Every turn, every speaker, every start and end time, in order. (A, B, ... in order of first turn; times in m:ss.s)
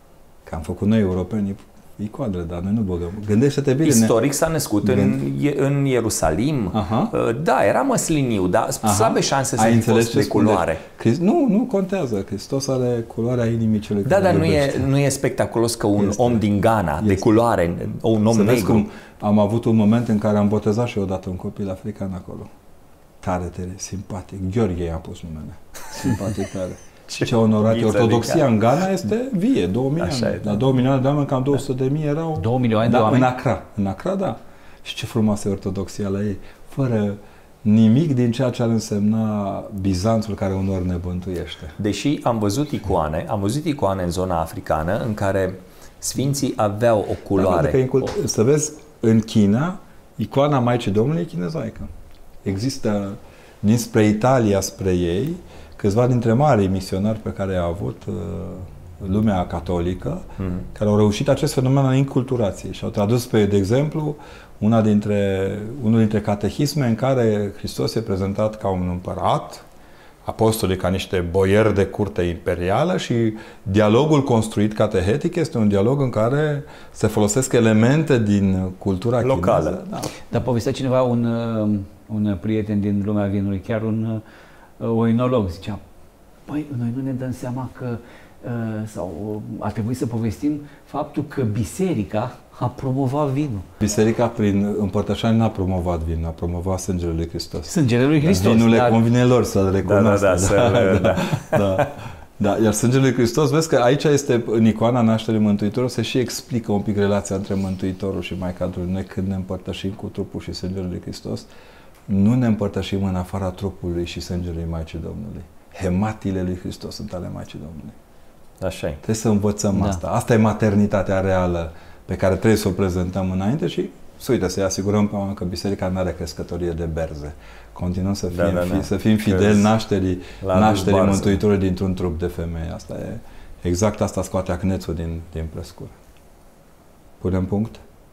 0:00.5-0:04.2 A
0:03.8-0:10.8 B
0:04.8-0:05.2 A
0:06.7-0:07.1 A
0:08.8-0:14.9 A
0:14.0-0:18.9 B
0:16.0-0:16.4 A
0:17.0-0:17.4 A
0:18.3-0:22.5 A
0:23.2-0:41.8 A
0:27.1-0:28.5 B
0:30.0-0:30.7 B
0:32.4-0:33.3 C
0:41.8-0:47.8 B
0:47.4-0:51.9 A
0:52.4-1:09.6 A
1:00.4-1:00.7 B
1:10.3-1:20.1 A
1:19.2-1:19.8 B
1:20.3-1:24.2 C
1:24.8-1:25.8 C
1:26.5-1:33.7 C
1:33.8-1:37.7 A
1:37.7-1:39.0 C
1:38.2-1:51.5 A
1:39.8-1:41.9 B
1:52.1-1:58.0 A
1:58.6-1:59.0 B
1:59.0-2:16.0 A
1:59.7-2:00.0 C
2:08.3-2:09.7 B
2:10.4-2:11.4 B
2:17.2-2:17.8 A